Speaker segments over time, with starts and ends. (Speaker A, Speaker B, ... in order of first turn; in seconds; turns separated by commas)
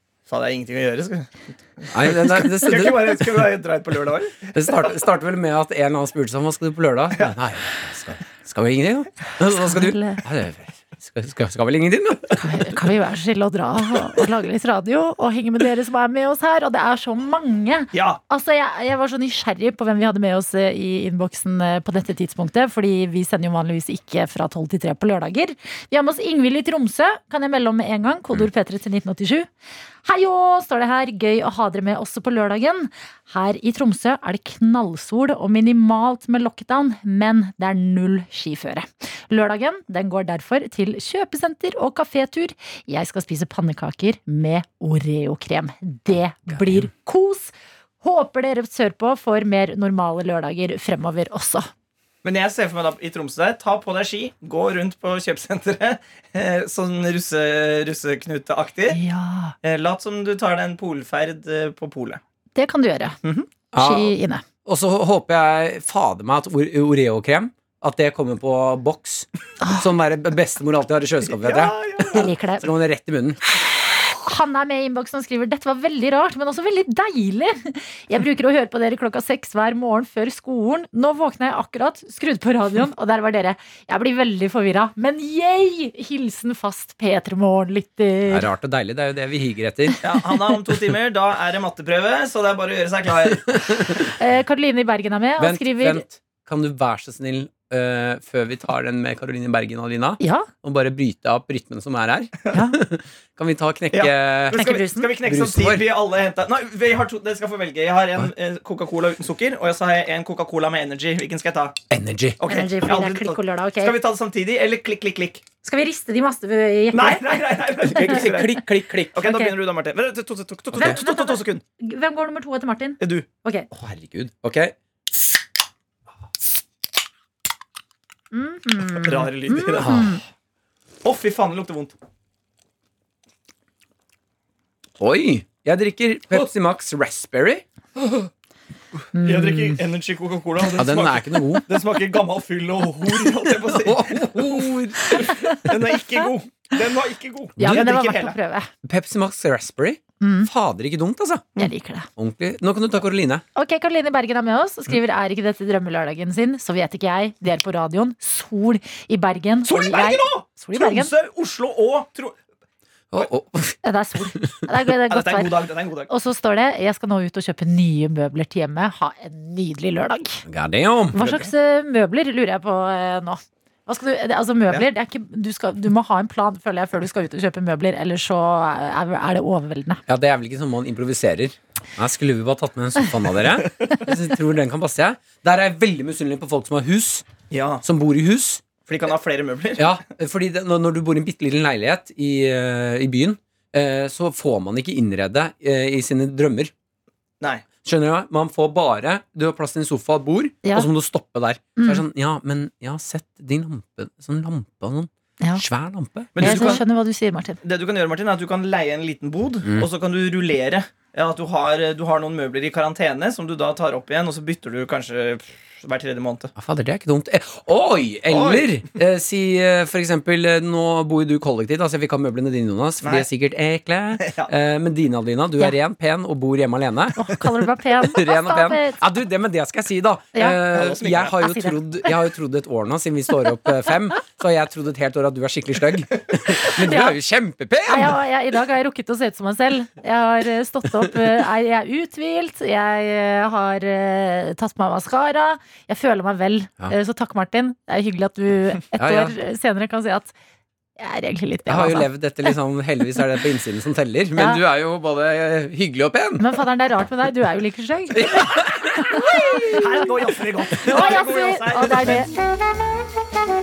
Speaker A: 0.3-5.0, Speaker B: 1.9-3.5, Speaker B: 4.5-12.7, Speaker C: 9.4-10.2, Speaker C: 12.4-29.5, Speaker A: 17.9-18.2, Speaker C: 30.1-51.7, Speaker B: 46.5-46.9, Speaker A: 52.2-59.0, Speaker C: 58.9-59.5, Speaker A: 59.6-62.2, Speaker C: 62.5-63.2, Speaker B: 63.7-73.4, Speaker C: 63.8-64.4, Speaker A: 71.3-72.3, Speaker C: 72.1-72.7, Speaker C: 73.9-88.5, Speaker B: 88.3-90.0, Speaker A: 90.0-93.7, Speaker C: 93.9-96.0, Speaker B: 95.4-104.6, Speaker C: 100.2-100.5, Speaker C: 102.5-102.8, Speaker A: 103.9-111.8, Speaker C: 104.5-105.2, Speaker B: 105.2-105.9, Speaker B: 111.9-112.4, Speaker A: 112.4-115.5, Speaker C: 112.5-114.0, Speaker C: 115.6-118.2, Speaker A: 116.9-121.6, Speaker B: 117.9-119.2, Speaker C: 119.2-119.5, Speaker B: 120.7-121.0, Speaker C: 120.7-123.7, Speaker A: 123.0-123.3, Speaker B: 123.7-124.8, Speaker C: 128.3-130.2, Speaker A: 128.9-130.0, Speaker B: 129.8-130.2, Speaker A: 131.0-131.9, Speaker B: 135.0-137.7, Speaker A: 138.0-138.3, Speaker C: 139.1-139.8, Speaker A: 139.2-148.4, Speaker B: 140.7-141.8, Speaker B: 143.5-145.4, Speaker B: 147.6-147.9, Speaker C: 147.6-148.7, Speaker B: 148.8-151.5, Speaker C: 150.2-150.5, Speaker C: 151.6-152.1, Speaker B: 152.2-153.4, Speaker C: 153.6-161.1, Speaker A: 159.7-162.4, Speaker B: 163.1-163.8, Speaker C: 163.8-165.6, Speaker B: 164.3-164.7, Speaker A: 165.1-166.1, Speaker C: 166.1-170.4, Speaker B: 170.5-171.3, Speaker C: 171.1-180.0, Speaker A: 171.2-171.5, Speaker B: 180.1-187.3, Speaker A: 187.5-187.8, Speaker B: 187.8-188.6, Speaker A: 188.8-189.9, Speaker B: 189.8-196.7, Speaker A: 197.4-197.7, Speaker B: 197.8-206.8, Speaker C: 201.8-202.0, Speaker A: 206.3-206.9, Speaker C: 206.4-207.6, Speaker A: 207.6-216.5, Speaker B: 209.6-209.9, Speaker B: 216.6-227.5, Speaker A: 218.3-218.8, Speaker A: 223.0-223.3, Speaker A: 224.2-224.5, Speaker C: 227.2-229.0, Speaker B: 228.0-238.2, Speaker A: 230.7-231.4, Speaker C: 231.4-231.8, Speaker C: 236.8-237.2, Speaker C: 237.9-250.3, Speaker B: 249.0-249.3, Speaker C: 251.0-252.1, Speaker B: 251.7-256.6, Speaker C: 254.3-254.6, Speaker C: 256.4-260.1, Speaker B: 258.1-259.9, Speaker A: 259.6-262.3, Speaker C: 260.8-262.3